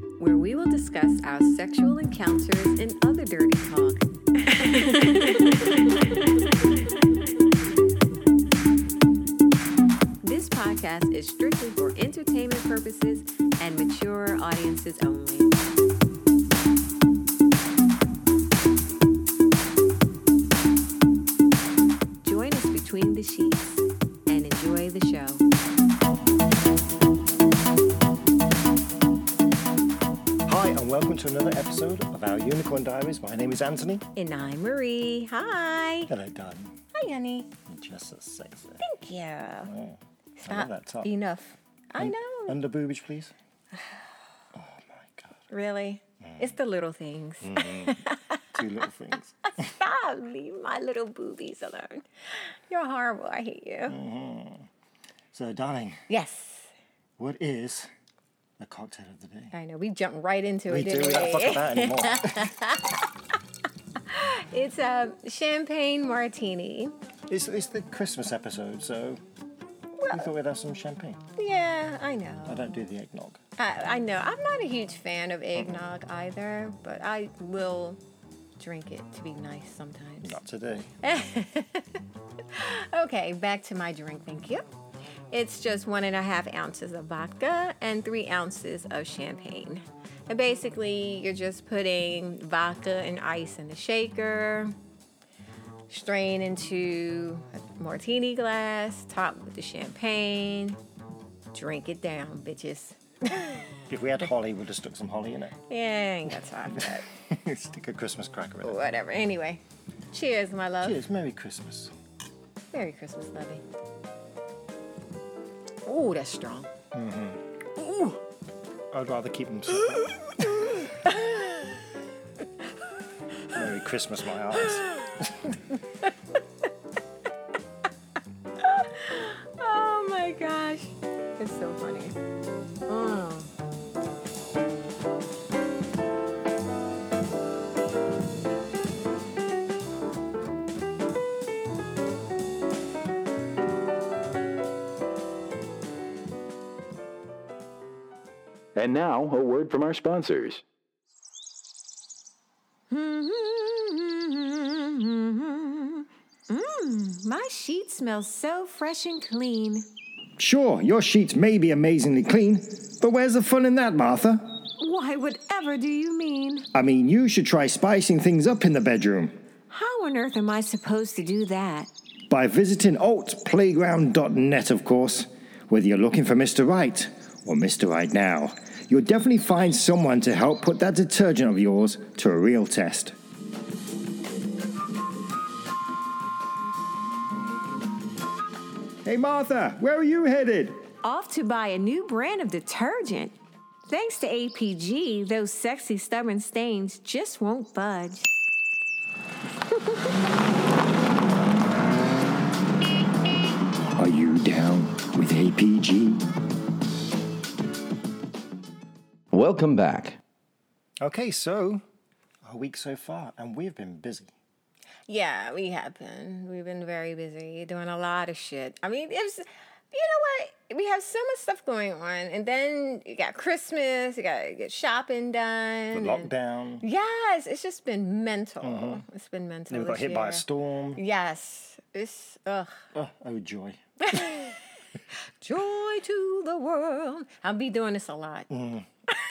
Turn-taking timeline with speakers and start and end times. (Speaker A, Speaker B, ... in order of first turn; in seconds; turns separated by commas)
Speaker A: 0.2-7.2, Speaker A: 10.2-15.6, Speaker A: 22.2-25.4, Speaker B: 30.4-34.1, Speaker A: 34.1-36.1, Speaker B: 36.1-36.8, Speaker A: 36.9-37.5, Speaker B: 37.6-38.8, Speaker A: 38.8-39.7, Speaker B: 39.6-41.1, Speaker A: 40.4-42.6, Speaker B: 42.0-43.3, Speaker B: 44.5-45.4, Speaker A: 45.5-48.6, Speaker B: 46.2-46.6, Speaker B: 47.4-48.0, Speaker B: 48.5-49.8, Speaker A: 49.5-54.0, Speaker B: 53.9-54.7, Speaker B: 55.3-56.0, Speaker A: 56.1-56.7, Speaker B: 57.2-57.9, Speaker B: 58.6-59.5, Speaker A: 59.5-63.1, Speaker B: 60.7-62.5, Speaker A: 64.0-66.9, Speaker B: 67.3-69.2, Speaker A: 70.0-70.3, Speaker B: 70.1-71.2, Speaker A: 71.3-72.6, Speaker B: 72.5-73.4, Speaker A: 73.6-78.0, Speaker B: 75.5-75.9, Speaker A: 78.6-80.4, Speaker B: 80.2-80.9, Speaker A: 81.0-84.6, Speaker A: 85.3-94.8, Speaker A: 95.9-100.8, Speaker A: 101.5-103.8, Speaker B: 103.9-105.5, Speaker A: 105.7-107.0, Speaker B: 106.7-108.8, Speaker A: 108.6-111.0, Speaker B: 110.8-111.9, Speaker A: 112.7-113.6, Speaker A: 115.8-116.7, Speaker B: 116.9-117.5, Speaker A: 117.8-118.2, Speaker B: 118.9-120.9, Speaker A: 120.4-121.9, Speaker B: 123.5-125.6, Speaker A: 124.6-125.2, Speaker A: 128.6-132.2, Speaker A: 132.9-133.5, Speaker C: 148.7-150.6, Speaker A: 152.9-159.9, Speaker B: 160.4-164.6, Speaker A: 164.8-166.7, Speaker B: 166.7-169.3, Speaker A: 169.7-171.9, Speaker B: 172.3-183.2, Speaker B: 189.0-190.8, Speaker A: 191.0-193.3, Speaker A: 193.9-198.3, Speaker A: 199.8-200.1, Speaker B: 203.9-206.2, Speaker C: 209.3-210.2, Speaker B: 211.0-211.8, Speaker B: 212.4-214.3, Speaker A: 215.1-226.3, Speaker B: 225.9-226.8, Speaker A: 226.8-230.4, Speaker B: 228.6-229.0, Speaker B: 229.7-231.0, Speaker A: 230.9-232.9, Speaker B: 232.9-234.3, Speaker A: 234.0-234.6, Speaker A: 235.4-238.5, Speaker B: 238.5-238.9